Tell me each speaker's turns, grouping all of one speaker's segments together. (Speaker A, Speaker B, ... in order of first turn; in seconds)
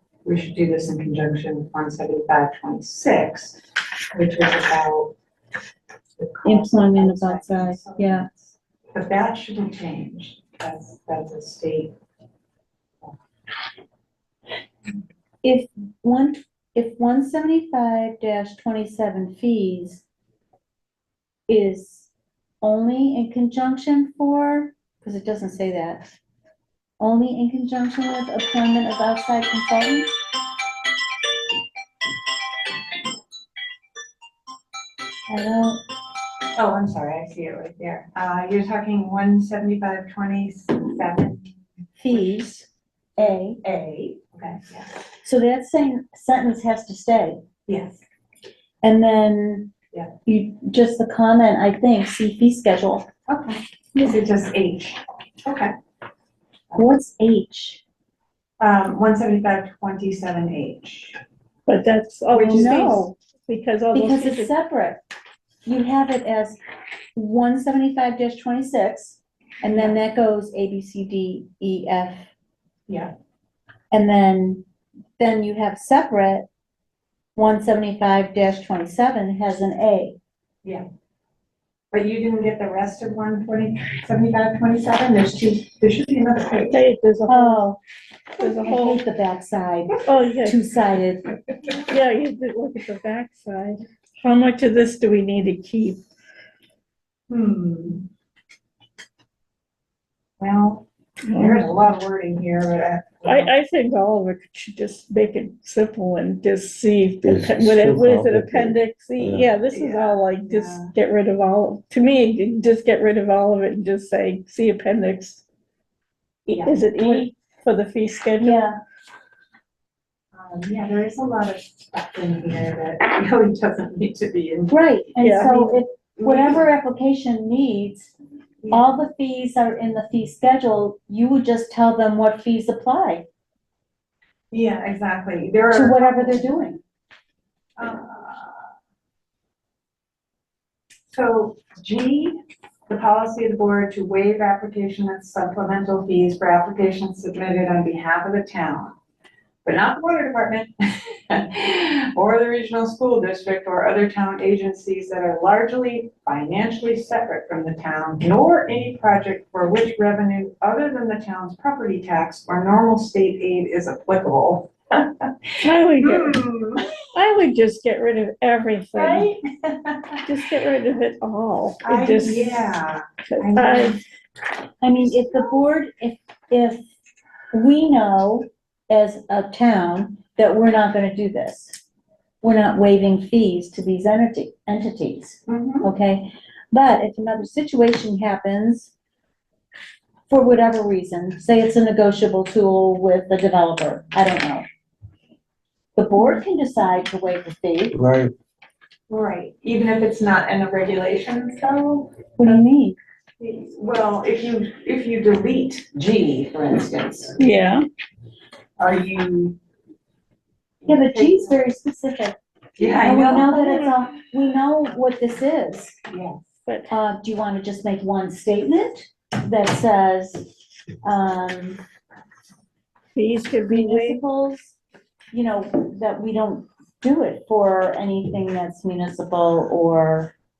Speaker A: 0.2-3.6, 4.1-5.1, 6.2-11.9, 36.5-41.5, 43.2-44.9, 47.7-48.0, 53.3-55.7, 58.6-61.2, 62.3-63.0, 69.7-70.0, 81.9-86.8, 97.3-98.0, 100.4-103.5, 109.7-110.9, 116.5-116.8, 120.3-124.7, 125.5-126.6, 134.5-136.5, 137.8-138.7, 141.1-142.3, 142.9-148.9, 149.6-166.8, 168.9-170.2, 171.8-174.0, 185.5-185.9, 199.1-202.6, 203.4-207.4, 208.8-209.6, 210.8-211.6, 212.8-213.5, 216.1-216.4
Speaker B: 6.4-8.3, 15.4-20.0, 21.5-22.1, 22.6-26.1, 27.0-30.1, 35.3-35.8, 42.0-42.7, 43.2-43.6, 45.2-47.4, 48.8-49.7, 50.2-53.1, 56.8-57.8, 62.5-63.1, 63.9-65.0, 65.6-66.6, 67.2-72.3, 73.9-74.6, 75.2-76.5, 77.3-80.2, 87.3-87.8, 88.4-91.3, 117.0-117.2, 118.4-118.8, 124.7-128.1, 128.7-133.2, 135.7-136.8, 174.8-176.8, 177.5-181.8, 182.4-188.9, 190.3-194.6, 195.9-197.9, 202.4-202.9, 210.9-212.4, 213.0-216.0, 216.9-220.5, 221.0-221.8, 223.7-224.8, 225.3-230.3
Speaker C: 61.7-64.5, 86.7-87.7, 88.4-89.0, 90.0-90.6, 91.9-96.0, 101.3-101.7, 103.2-115.4, 116.5-118.7, 125.2-125.7, 165.6-166.4, 167.1-169.3, 170.2-172.7, 173.3-174.0, 207.4-207.8, 213.4-213.9, 216.7-216.9, 223.1-224.2
Speaker D: 107.2-109.5, 197.9-198.3